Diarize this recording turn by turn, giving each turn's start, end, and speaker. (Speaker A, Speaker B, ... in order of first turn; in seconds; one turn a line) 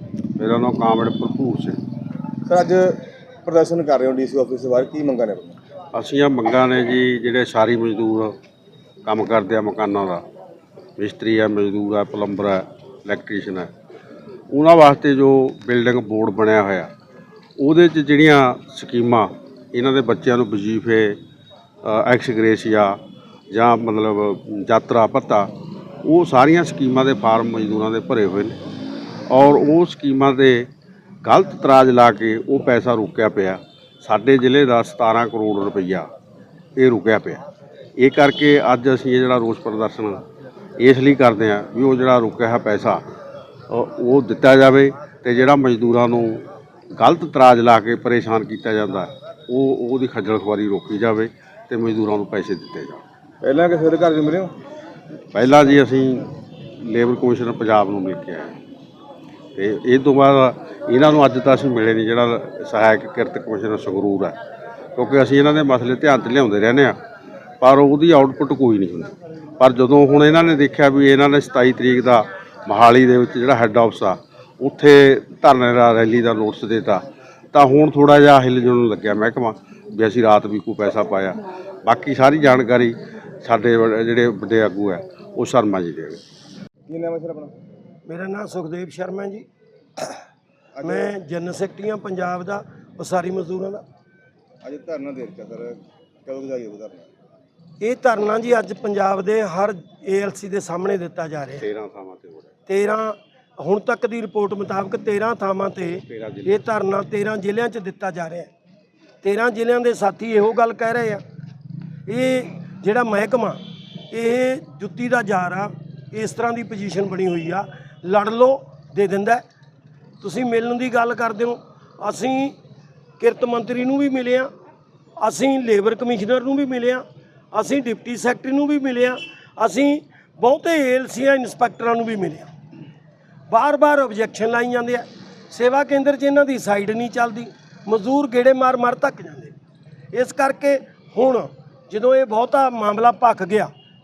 Speaker A: 0.4-1.8
Speaker B: 2.5-5.5
Speaker A: 5.9-8.3
Speaker A: 9.0-10.2
Speaker A: 11.0-13.7
Speaker A: 14.5-16.9
Speaker A: 17.6-21.2
Speaker A: 21.8-23.0
Speaker A: 23.5-25.5
Speaker A: 26.0-28.6
Speaker A: 29.3-30.7
Speaker A: 31.2-36.1
Speaker A: 36.8-37.4
Speaker A: 38.0-40.2
Speaker A: 40.8-43.0
Speaker A: 43.7-53.0
Speaker B: 53.4-54.5
Speaker A: 55.3-58.5
Speaker A: 59.5-64.3
Speaker A: 65.0-67.0
Speaker A: 67.6-86.2
Speaker B: 86.9-87.5
Speaker C: 88.0-89.5
Speaker B: 90.7-91.1
Speaker C: 90.8-93.8
Speaker B: 94.6-97.1
Speaker C: 97.8-101.6
Speaker A: 101.6-102.5
Speaker C: 102.7-108.5
Speaker A: 106.1-106.7
Speaker C: 109.2-111.2
Speaker C: 112.1-113.6
Speaker C: 114.1-119.4
Speaker C: 120.2-122.5
Speaker C: 123.2-124.5
Speaker C: 125.2-132.5
Speaker C: 133.5-139.5
Speaker C: 140.1-143.7